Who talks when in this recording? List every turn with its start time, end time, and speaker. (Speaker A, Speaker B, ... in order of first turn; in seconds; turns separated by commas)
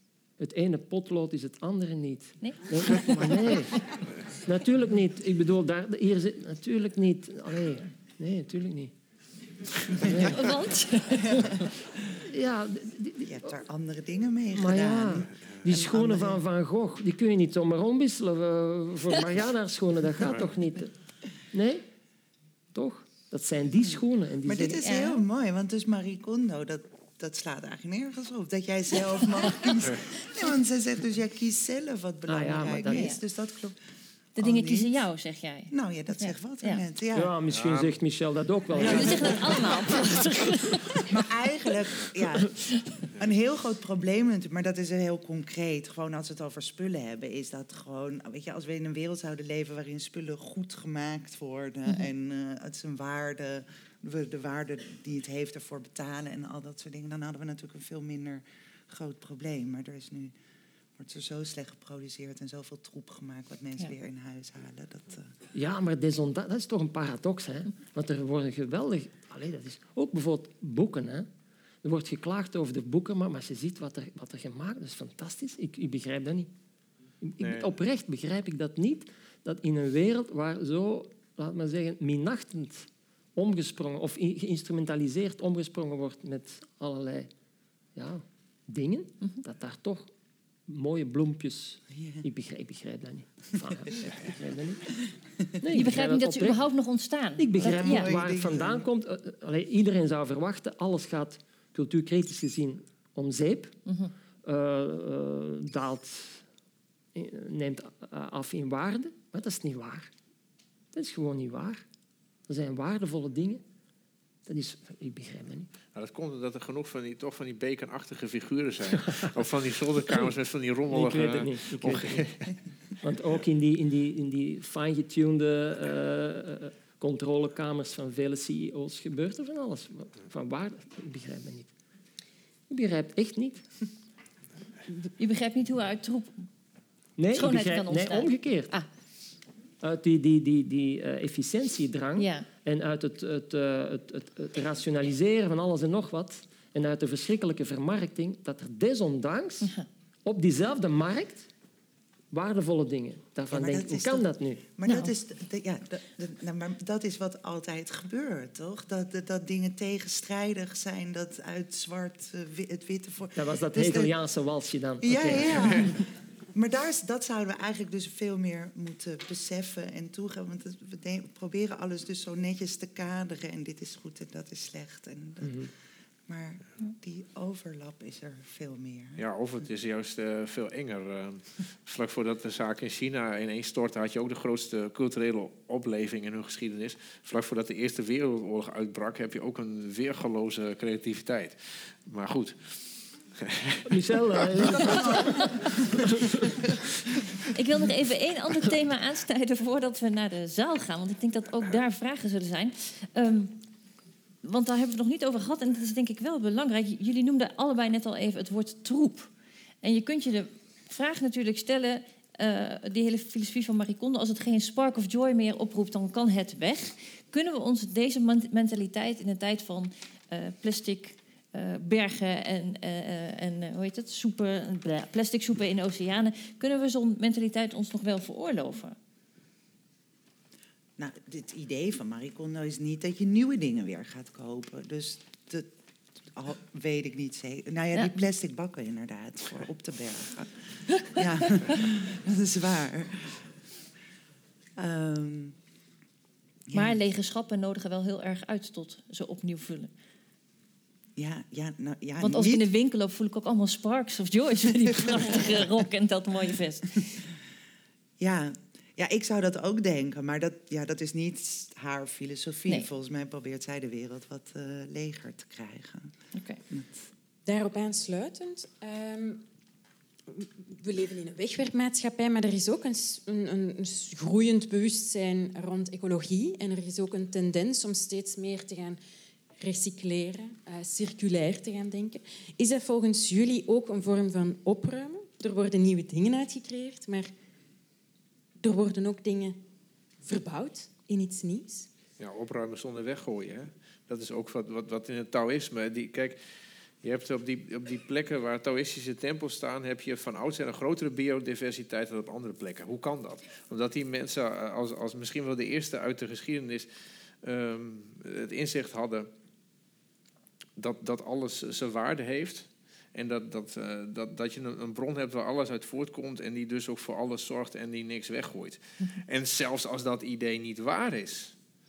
Speaker A: 0.4-3.9, Speaker B: 2.4-3.9, Speaker A: 4.5-8.9, Speaker A: 9.9-10.5, Speaker B: 10.1-11.7, Speaker C: 11.2-11.7, Speaker A: 12.2-13.4, Speaker C: 13.2-16.4, Speaker A: 14.5-20.9, Speaker D: 20.2-20.5, Speaker A: 21.5-21.8, Speaker A: 22.7-24.9, Speaker C: 23.8-33.8, Speaker B: 24.8-25.2, Speaker A: 32.3-33.1, Speaker B: 32.9-33.2, Speaker B: 34.4-36.8, Speaker C: 34.4-35.0, Speaker C: 35.7-37.3, Speaker A: 37.1-40.2, Speaker D: 37.5-38.0, Speaker C: 38.7-40.3, Speaker B: 38.7-41.1, Speaker C: 41.0-42.5, Speaker C: 43.1-60.4, Speaker C: 61.0-65.3, Speaker A: 65.5-71.3, Speaker A: 71.8-76.5, Speaker A: 77.2-87.3, Speaker D: 77.4-77.8, Speaker A: 88.0-90.1, Speaker A: 90.7-95.0, Speaker C: 91.9-92.2, Speaker A: 95.6-96.6, Speaker B: 95.7-98.2, Speaker A: 97.4-103.8, Speaker C: 97.6-98.9, Speaker B: 103.9-104.1, Speaker A: 104.4-106.4, Speaker A: 107.1-110.1, Speaker A: 110.9-111.8, Speaker A: 112.5-113.6, Speaker A: 114.5-115.7, Speaker D: 115.9-122.5, Speaker A: 118.9-119.3, Speaker A: 120.0-120.3, Speaker A: 120.9-122.3, Speaker A: 123.0-131.7, Speaker A: 132.7-133.7, Speaker B: 135.0-136.5, Speaker A: 137.2-138.7, Speaker B: 137.3-138.9, Speaker A: 139.8-149.7, Speaker B: 142.2-142.5, Speaker A: 150.2-151.5, Speaker A: 152.3-154.6, Speaker C: 153.5-164.1, Speaker B: 154.8-155.1, Speaker A: 163.3-165.9, Speaker C: 165.0-175.7, Speaker C: 176.3-179.2, Speaker D: 179.2-195.0, Speaker A: 193.9-196.5, Speaker B: 195.1-195.5, Speaker B: 197.4-203.6, Speaker B: 204.4-209.3, Speaker B: 209.8-229.0, Speaker C: 231.0-235.7, Speaker C: 236.3-243.5, Speaker C: 244.8-245.6, Speaker C: 246.7-247.0, Speaker B: 246.7-249.9, Speaker C: 251.2-252.7, Speaker B: 252.2-257.2, Speaker C: 254.7-255.8, Speaker C: 258.2-266.2, Speaker B: 266.4-266.6, Speaker C: 266.7-267.1, Speaker E: 267.5-269.5, Speaker E: 270.3-279.0, Speaker E: 279.6-287.3, Speaker E: 288.6-289.6, Speaker E: 290.2-291.9, Speaker D: 292.2-296.4, Speaker D: 297.0-306.9, Speaker D: 307.4-309.3, Speaker D: 310.8-321.6